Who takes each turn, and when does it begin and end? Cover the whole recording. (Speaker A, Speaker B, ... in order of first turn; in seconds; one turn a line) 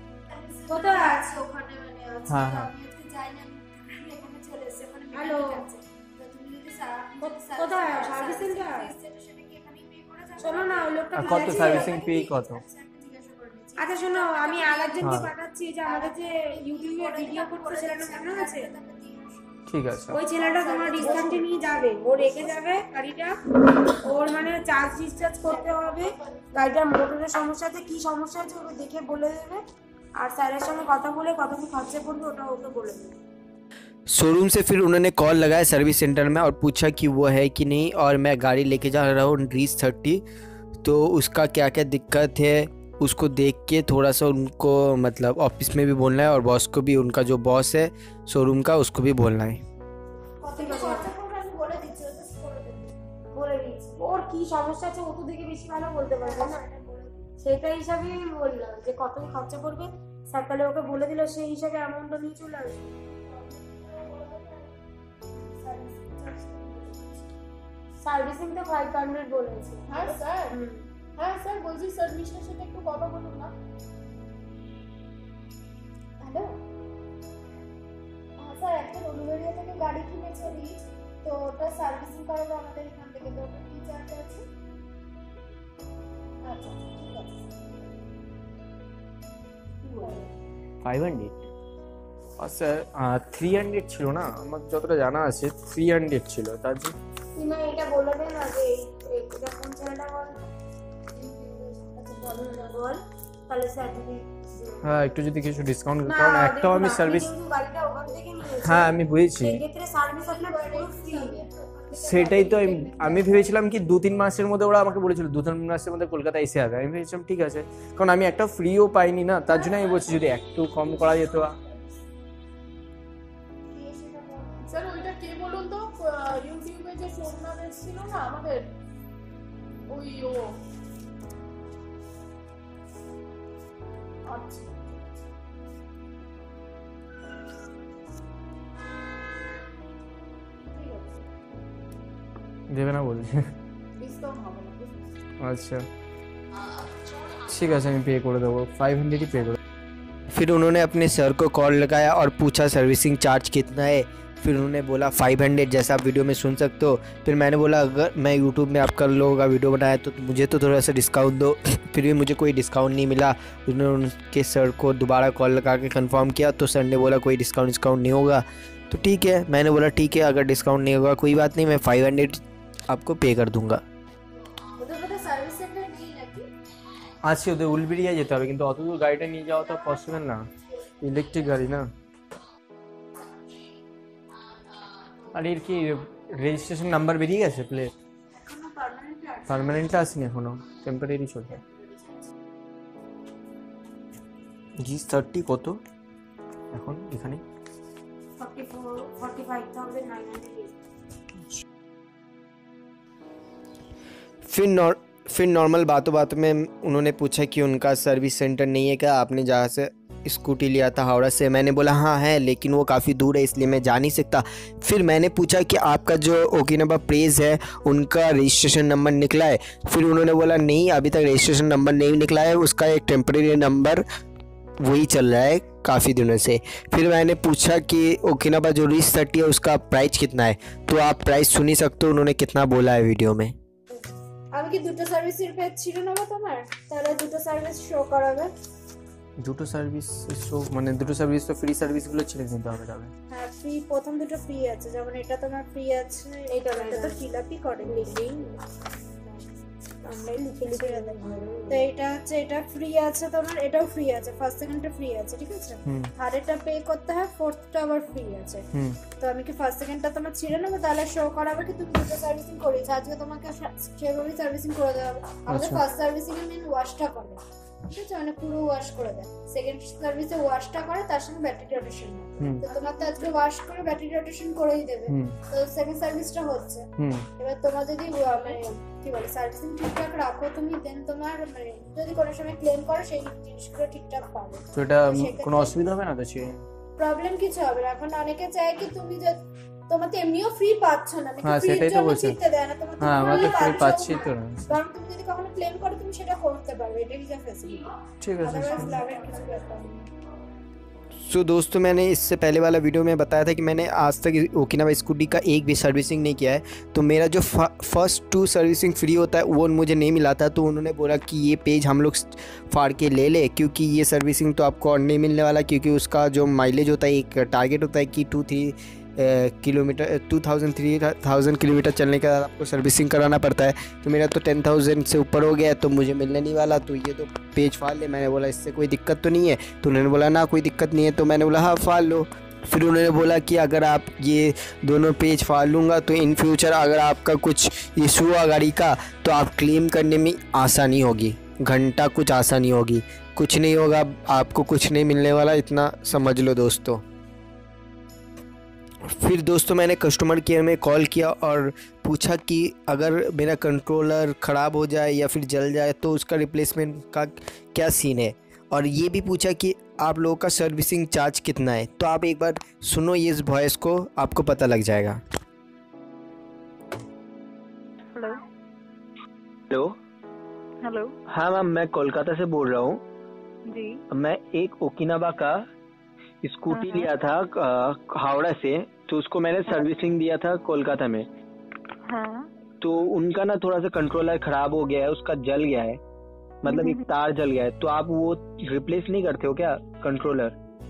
Speaker A: 0.3-22.6
Speaker B: 0.7-1.3
Speaker C: 2.3-2.7
Speaker B: 5.1-5.7
Speaker B: 7.2-8.9
Speaker B: 10.4-12.0
Speaker C: 11.2-12.6
Speaker B: 13.8-18.7
Speaker C: 15.0-15.3
Speaker C: 19.7-20.2
Speaker B: 20.1-23.4
Speaker B: 24.0-29.6
Speaker A: 25.2-26.8
Speaker B: 30.2-33.2
Speaker D: 34.1-40.2
Speaker D: 40.8-49.6
Speaker A: 50.4-53.0
Speaker B: 50.5-51.1
Speaker B: 53.3-56.6
Speaker A: 56.2-57.3
Speaker B: 57.4-62.9
Speaker A: 63.1-64.8
Speaker A: 65.3-67.3
Speaker B: 68.0-70.8
Speaker E: 69.9-70.6
Speaker E: 71.2-73.5
Speaker A: 76.2-76.6
Speaker A: 78.4-84.5
Speaker A: 86.4-87.3
Speaker A: 89.9-90.3
Speaker C: 90.8-91.3
Speaker C: 92.4-97.0
Speaker B: 97.4-100.5
Speaker A: 101.1-102.8
Speaker B: 102.3-104.8
Speaker C: 104.8-107.3
Speaker B: 106.0-111.4
Speaker C: 108.6-109.6
Speaker A: 110.1-113.6
Speaker C: 111.9-121.6
Speaker A: 119.5-121.0
Speaker A: 123.7-125.0
Speaker E: 124.7-128.7
Speaker E: 129.9-130.5
Speaker E: 134.3-135.0
Speaker E: 140.7-141.2
Speaker C: 142.7-143.5
Speaker E: 144.0-145.1
Speaker C: 145.4-145.9
Speaker C: 147.5-149.6
Speaker D: 150.3-173.8
Speaker A: 174.8-176.5
Speaker C: 177.2-180.5
Speaker C: 181.0-181.9
Speaker C: 185.3-187.9
Speaker A: 188.5-189.6
Speaker C: 189.5-191.6
Speaker D: 194.8-195.8
Speaker C: 196.7-197.4
Speaker B: 198.4-200.7
Speaker D: 204.4-224.0
Speaker D: 224.8-233.6
Speaker A: 234.5-238.5
Speaker C: 239.4-243.1
Speaker A: 243.3-248.2
Speaker B: 246.5-247.2
Speaker B: 247.8-248.6
Speaker B: 250.0-251.9
Speaker A: 250.7-258.7
Speaker C: 255.9-256.1
Speaker C: 258.7-259.0
Speaker A: 259.2-276.9
Speaker C: 265.5-265.8
Speaker C: 272.4-272.6
Speaker C: 275.1-275.4
Speaker C: 277.0-277.3
Speaker A: 277.4-285.8
Speaker C: 284.7-286.6
Speaker A: 287.0-297.9
Speaker C: 291.4-292.4
Speaker C: 293.0-294.6
Speaker C: 298.2-299.0
Speaker A: 298.4-300.1
Speaker B: 298.7-299.4
Speaker D: 301.2-347.0
Speaker D: 349.1-365.2
Speaker F: 368.1-368.4
Speaker G: 369.7-370.0
Speaker F: 370.8-371.1
Speaker G: 371.3-373.0
Speaker F: 373.7-374.0
Speaker G: 374.1-375.7
Speaker G: 376.4-381.3
Speaker F: 376.7-377.1
Speaker F: 382.1-382.5
Speaker G: 382.8-386.0
Speaker G: 386.6-390.6
Speaker F: 386.7-387.1